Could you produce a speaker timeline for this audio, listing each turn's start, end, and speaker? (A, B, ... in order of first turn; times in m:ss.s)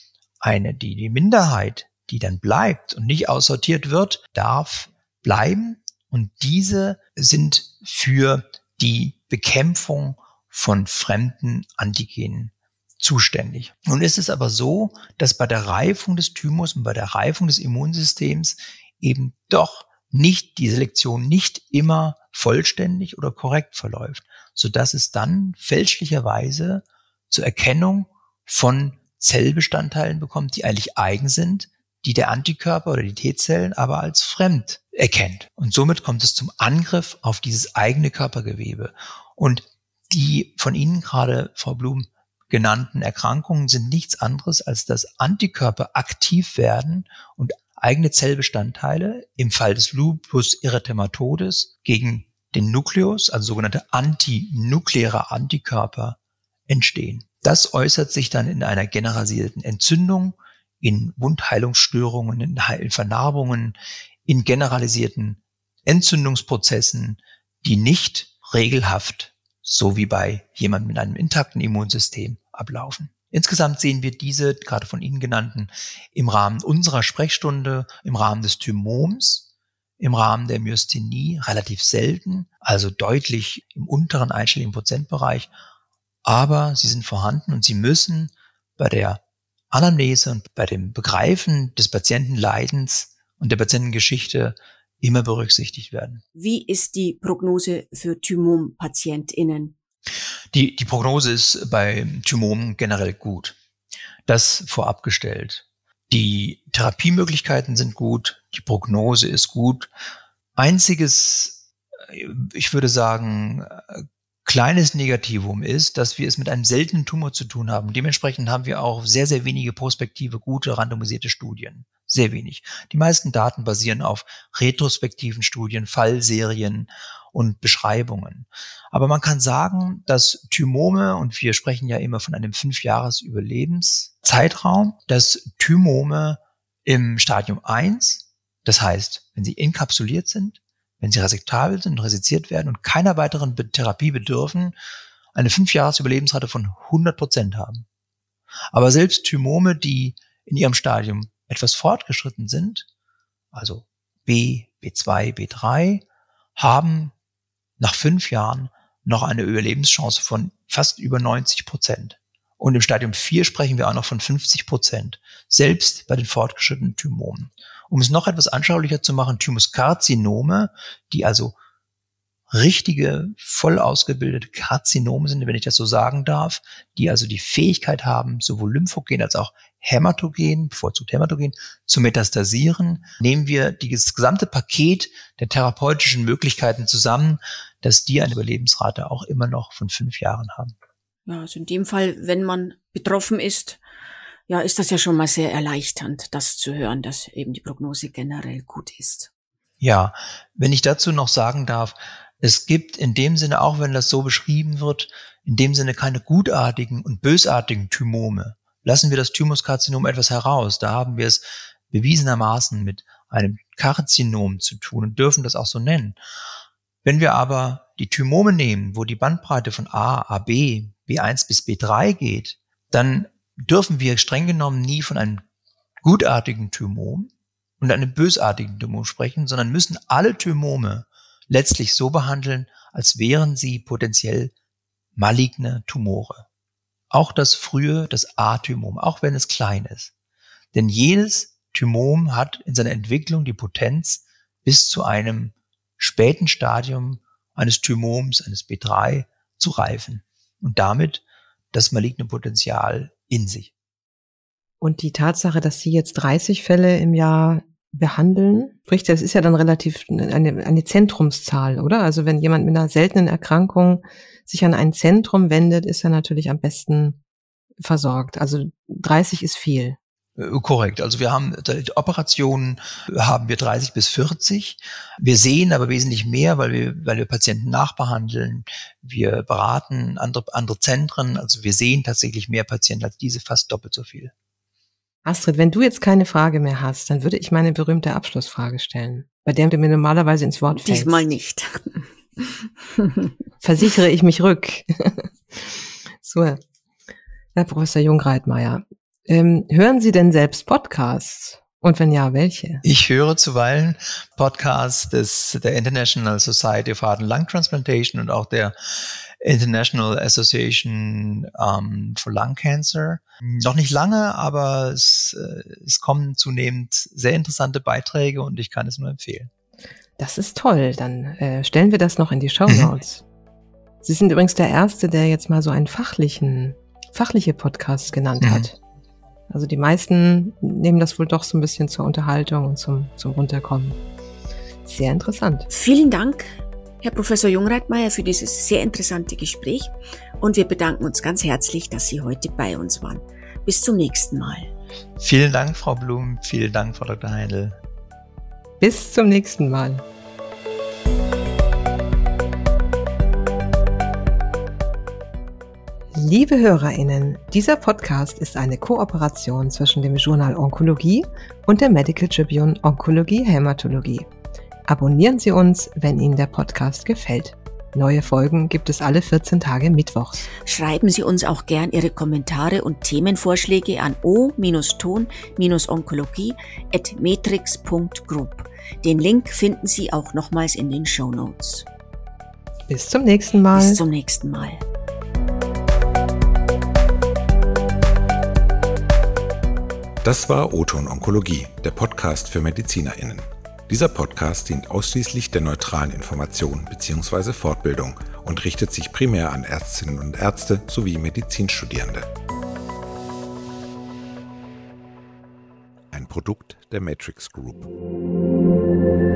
0:00.4-0:56.2 A
0:56.7-1:19.5 A
1:20.0-1:25.5 A
1:26.2-1:29.2 A
1:29.7-1:36.2 A
1:36.4-1:39.8 B
1:40.5-1:43.6 A
1:44.3-1:49.9 A
1:50.6-2:24.8 A
2:25.3-2:27.8 A
2:28.7-2:32.9 A
2:33.5-2:36.0 A
2:36.6-2:37.1 A
2:37.8-2:51.6 A
2:52.5-3:10.7 A
3:11.3-3:13.8 B
3:14.5-3:19.3 B
3:19.8-3:36.2 A
3:37.0-3:45.4 A
3:46.0-3:54.5 A
3:55.2-3:56.4 A
3:57.1-4:00.1 A
4:00.7-4:13.7 A
4:14.8-4:27.2 C
4:27.8-4:30.0 C
4:30.4-4:44.3 A
4:45.2-4:51.2 C
4:50.8-4:52.6 B
4:53.6-4:56.6 C
4:57.6-5:02.8 C
5:02.8-5:19.5 A
5:20.2-5:23.2 C
5:24.0-5:28.8 C
5:28.4-5:28.7 A
5:29.5-5:34.0 C
5:34.8-5:35.7 C
5:35.7-5:44.7 B
5:45.2-5:47.8 A
5:48.8-5:50.0 C
5:56.1-6:04.3 C
6:04.9-6:10.5 C
6:10.6-6:21.9 B
6:22.9-6:24.0 C
6:23.7-6:24.8 B
6:30.2-6:42.3 D
6:46.1-6:47.9 D